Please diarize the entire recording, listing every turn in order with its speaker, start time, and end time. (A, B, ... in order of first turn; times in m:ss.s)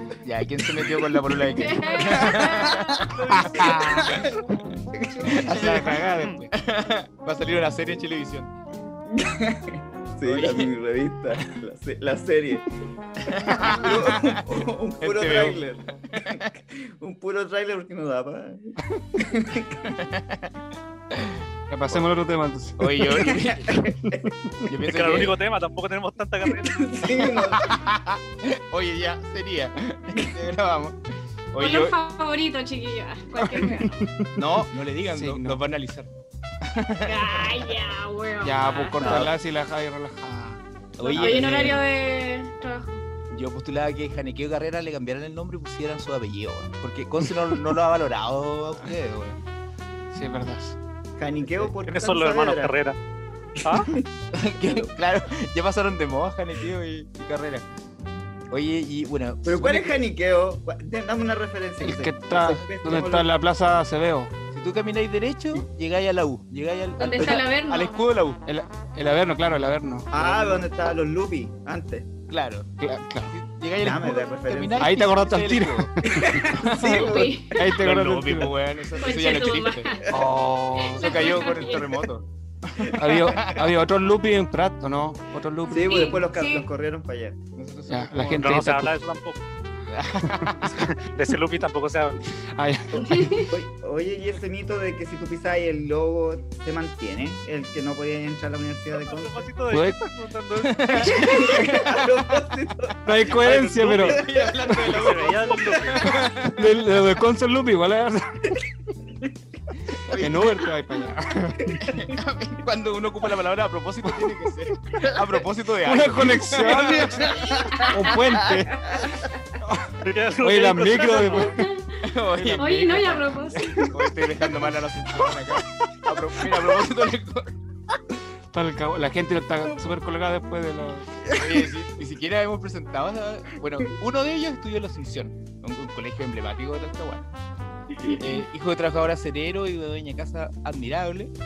0:00.2-0:04.3 A
0:01.4-0:03.0 B
0:02.2-0:04.4 C
0:03.3-0:04.1 D
0:04.9-0:05.7 C
0:05.2-0:08.5 A
0:05.4-0:06.5 D
0:09.1-0:12.7 C
0:10.2-0:10.7 A
0:13.2-0:15.6 A
0:13.4-0:19.9 C
0:16.1-0:16.4 A
0:19.8-0:20.6 A
0:21.1-0:22.1 A
0:21.7-0:24.7 D
0:22.8-0:23.8 A
0:23.3-0:24.2 C
0:24.6-0:25.4 A
0:24.9-0:27.0 E
0:26.6-0:27.7 C
0:27.3-0:31.0 A
0:31.5-0:32.0 A
0:31.6-0:34.0 B
0:33.4-0:35.6 D
0:34.4-0:36.1 A
0:36.6-0:37.8 A
0:37.0-0:39.1 B
0:38.4-0:40.6 D
0:39.0-0:39.3 C
0:39.0-0:39.3 A
0:41.0-0:41.8 A
0:41.0-0:43.0 B
0:41.1-0:41.8 D
0:43.3-0:49.4 A
0:50.1-0:50.8 D
0:51.2-0:52.7 C
0:51.8-0:53.0 E
0:53.6-0:54.1 C
0:53.6-0:53.9 E
0:54.3-0:57.6 A
0:58.5-1:00.0 A
0:59.4-1:03.3 C
1:01.8-1:04.3 D
1:04.5-1:08.4 A
1:07.0-1:08.0 B
1:08.4-1:10.1 D
1:10.1-1:12.1 C
1:10.1-1:10.6 A
1:12.3-1:12.7 A
1:12.8-1:13.4 D
1:13.3-1:20.0 A
1:13.8-1:15.0 C
1:14.8-1:16.4 D
1:16.0-1:17.6 C
1:16.7-1:17.6 B
1:17.5-1:18.6 D
1:19.0-1:20.1 B
1:20.1-1:21.4 D
1:20.8-1:22.0 B
1:20.9-1:23.6 A
1:22.8-1:23.5 C
1:22.9-1:26.2 D
1:25.7-1:27.4 C
1:25.7-1:26.7 B
1:27.6-1:28.7 A
1:27.9-1:28.9 D
1:28.4-1:29.4 E
1:29.9-1:31.0 A
1:30.2-1:30.7 D
1:31.0-1:32.3 E
1:32.4-1:33.5 D
1:32.9-1:39.5 C
1:33.0-1:33.5 B
1:39.0-1:41.2 E
1:39.7-1:40.0 D
1:40.6-1:42.4 A
1:41.0-1:43.3 C
1:43.0-1:44.2 D
1:43.3-1:46.8 A
1:44.0-1:45.1 C
1:44.9-1:46.2 E
1:46.3-1:48.6 D
1:50.0-1:50.4 A
1:50.1-1:50.4 C
1:50.2-1:52.0 D
1:51.8-1:57.5 A
1:54.1-1:55.0 D
1:55.8-1:59.0 D
1:57.0-1:59.1 C
1:59.6-2:01.7 D
2:00.0-2:01.6 E
2:01.6-2:01.9 B
2:02.0-2:03.0 A
2:02.3-2:03.6 D
2:02.6-2:03.9 B
2:03.8-2:07.5 A
2:08.5-2:11.1 D
2:11.3-2:17.3 A
2:18.0-2:18.2 C
2:18.2-2:21.3 A